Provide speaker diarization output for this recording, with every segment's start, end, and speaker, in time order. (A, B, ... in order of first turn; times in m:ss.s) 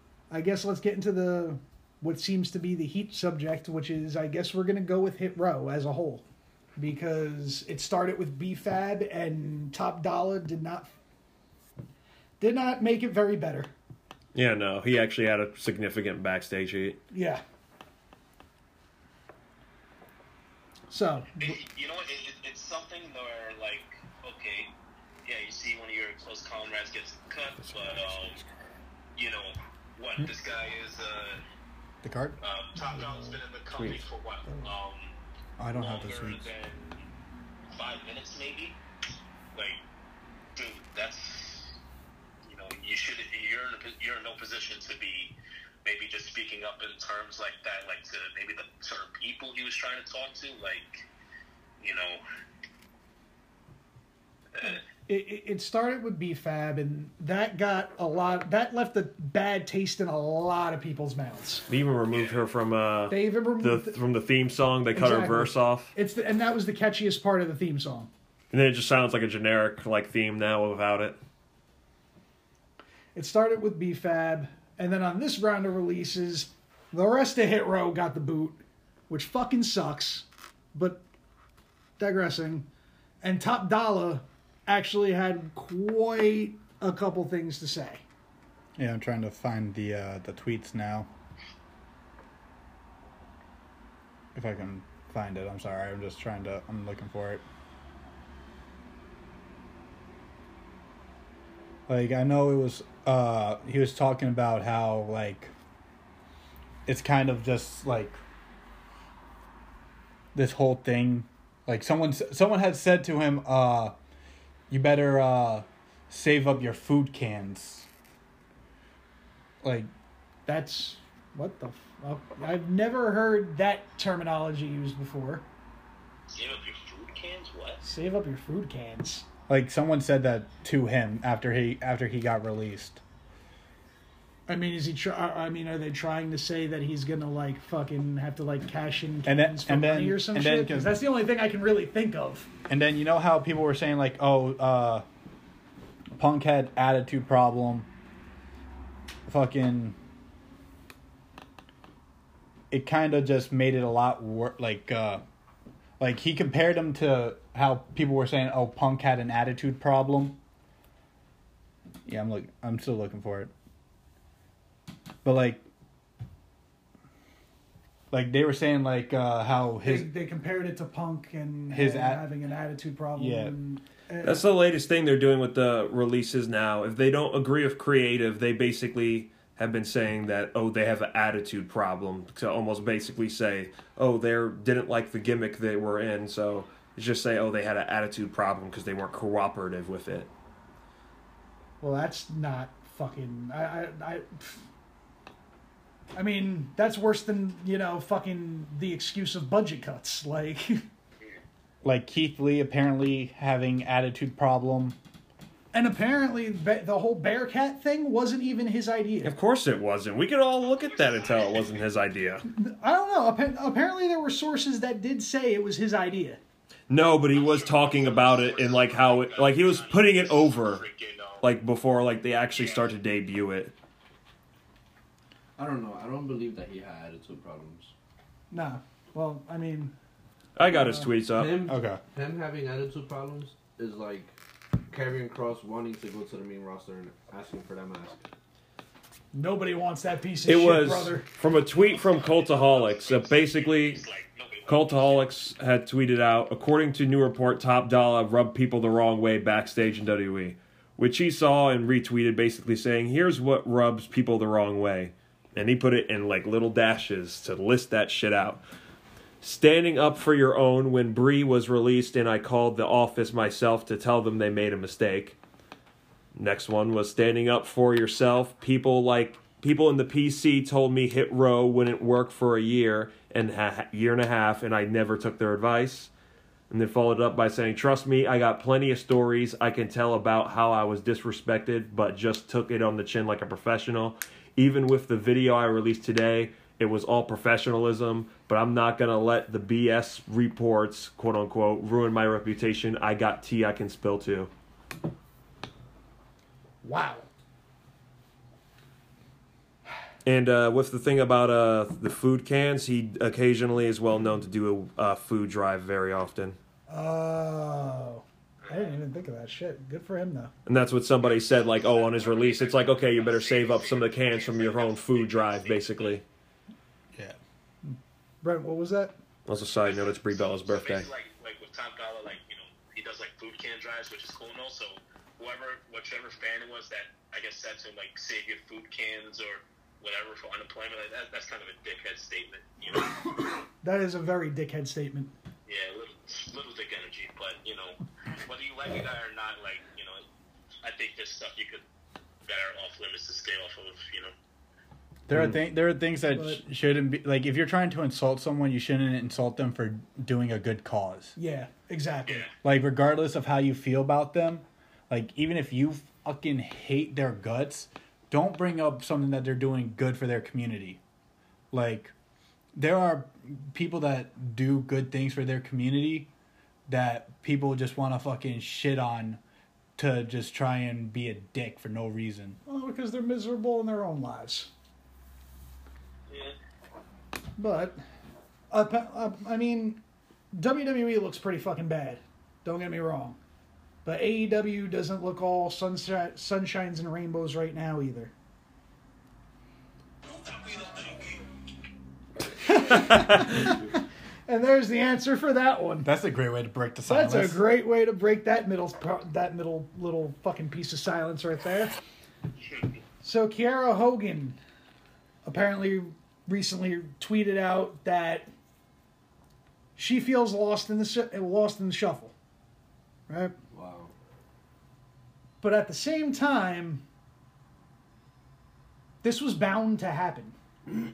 0:00.3-0:06.2 A
0:06.8-0:10.9 A
0:12.4-0:13.7 A
0:14.4-0:17.0 B
0:17.1-0:17.4 A
0:20.9-0:21.6 A
0:21.4-0:24.7 C
0:25.2-0:28.4 C
0:29.2-0:31.4 C
0:32.0-0:32.4 D
0:32.4-0:35.2 C
0:35.6-0:36.5 D
0:35.7-0:37.1 C
0:37.7-0:38.8 C
0:39.5-0:39.8 C
0:40.6-0:41.8 C
0:42.4-0:51.1 C
0:51.8-0:52.2 C
0:54.7-1:01.7 A
1:01.7-1:05.9 B
1:02.1-1:02.4 C
1:03.1-1:04.0 A
1:04.9-1:08.1 A
1:08.5-1:11.2 B
1:13.2-1:21.0 A
1:22.0-1:22.7 A
1:23.2-1:28.0 A
1:28.8-1:31.1 D
1:34.4-1:37.4 D
1:41.9-1:45.5 D
1:46.9-1:48.2 D
1:50.3-1:54.0 D
1:54.7-1:57.9 D
1:59.6-1:59.9 D
2:00.5-2:05.4 A
2:06.3-2:07.8 C
2:07.8-2:09.3 A
2:09.5-2:13.0 D
2:14.5-2:22.5 A
2:19.2-2:21.0 D
2:22.7-2:25.0 D
2:26.2-2:27.9 D
2:29.3-2:30.0 D
2:32.7-2:35.2 D
2:36.0-2:40.4 D
2:42.1-2:43.5 D
2:45.2-2:45.6 D
2:48.1-2:50.1 D
2:49.8-2:54.5 A
2:51.7-2:52.3 D
2:53.2-2:53.6 D
2:54.2-3:10.3 B
3:11.8-3:14.6 A
3:16.1-3:20.8 A
3:21.8-3:25.0 D
3:25.7-3:29.4 A
3:29.2-3:32.4 B
3:30.7-3:31.9 C
3:32.5-3:36.4 A
3:36.9-3:40.8 B
3:37.3-3:41.5 C
3:41.4-3:43.7 B
3:42.6-3:42.9 C
3:45.6-3:47.9 E
3:48.5-3:50.0 A
3:50.6-3:51.6 B
3:50.7-3:51.1 A
3:51.3-3:54.3 E
3:51.7-3:52.0 D
3:54.9-3:58.2 E
3:59.3-4:01.3 A
4:00.5-4:04.0 B
4:01.7-4:05.3 C
4:04.7-4:18.6 B
4:19.4-4:25.4 B
4:26.4-4:36.1 B
4:36.7-4:54.5 B
4:56.8-4:57.3 A
5:00.2-5:06.6 B
5:06.9-5:10.5 A
5:08.6-5:09.0 C
5:10.7-5:16.2 B
5:11.2-5:16.2 C
5:17.8-5:19.2 A
5:19.5-5:21.1 B
5:19.8-5:33.2 C
5:33.8-5:35.3 A
5:35.7-5:40.2 C
5:40.8-5:41.8 C
5:42.5-5:44.3 C
5:45.3-5:51.4 D
5:46.3-5:46.6 A
5:51.4-5:52.5 A
5:52.3-5:52.5 C
5:52.6-6:01.0 D
6:01.7-6:02.1 D
6:02.8-6:06.3 D
6:06.9-6:09.4 D
6:10.0-6:12.6 D
6:12.7-6:14.7 A
6:16.3-6:16.6 C
6:17.6-6:18.0 A
6:18.7-6:20.0 A
6:20.5-6:23.4 A
6:24.0-6:28.3 A
6:32.6-6:36.1 A
6:36.0-6:37.6 D
6:37.1-6:41.9 A
6:43.2-6:44.6 A
6:45.4-6:48.5 A
6:50.0-6:52.3 A
6:53.3-6:53.5 A
6:53.7-6:54.1 E
6:55.6-6:57.0 A
6:59.2-7:00.6 A